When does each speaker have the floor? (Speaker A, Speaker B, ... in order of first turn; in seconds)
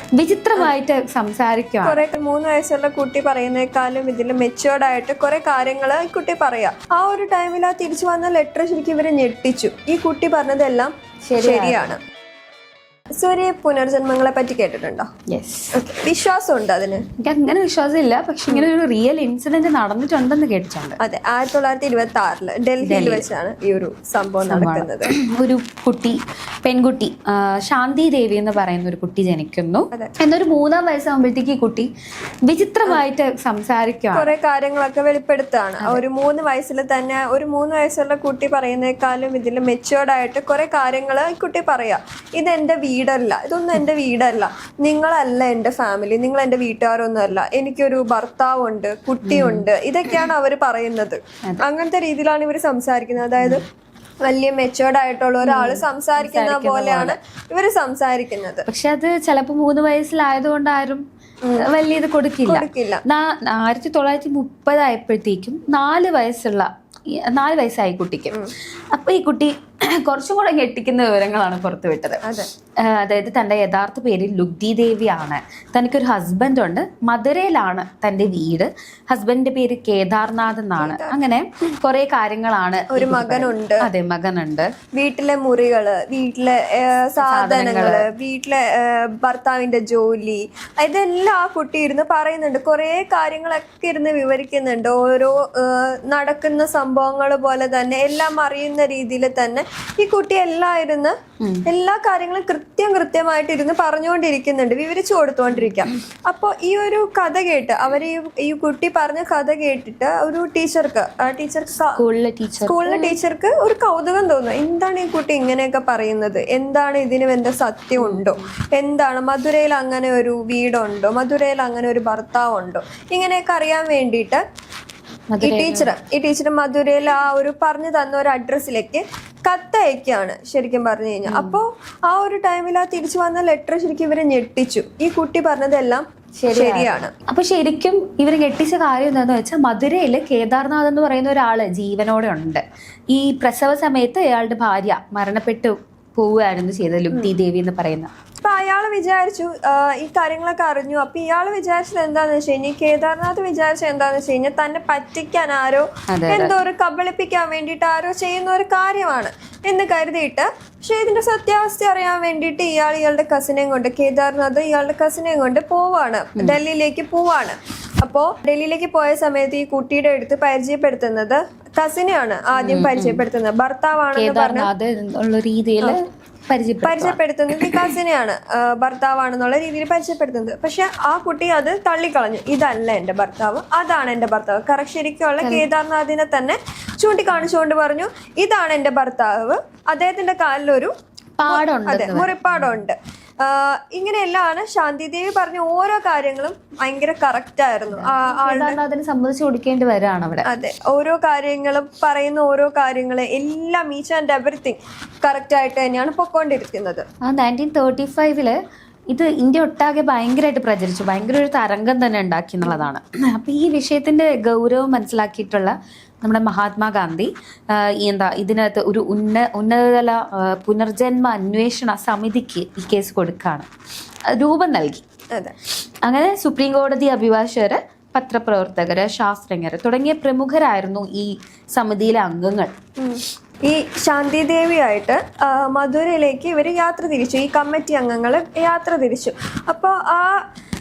Speaker A: 0.2-2.0, 11.3-11.9, 15.3-15.7, 17.2-21.0, 22.8-23.2, 24.5-31.9, 32.5-34.3, 49.2-49.6, 55.4-57.1, 58.7-61.0, 61.6-66.7, 67.3-68.4, 68.9-72.2, 72.8-84.7, 87.2-88.0, 101.4-101.7, 105.5-105.8, 112.0-113.1, 118.0-118.4, 125.3-125.9, 131.3-131.6, 136.4-148.1, 156.1-156.5, 172.6-173.2, 174.1-177.9, 185.4-185.6, 191.4-192.7, 197.9-200.4, 207.3-208.5, 209.1-217.3, 217.9-223.7, 224.3-225.0, 226.0-232.7
Speaker B: 1.8-12.0, 13.2-15.1, 15.7-17.0, 21.0-25.1, 34.1-53.6, 54.2-58.6, 62.5-63.0, 80.8-81.1, 82.9-83.8, 85.0-101.1, 101.7-112.0, 112.6-124.4, 125.4-137.1, 148.4-174.7, 176.8-190.9, 191.5-198.8, 200.5-207.0, 212.6-212.9, 233.0-240.4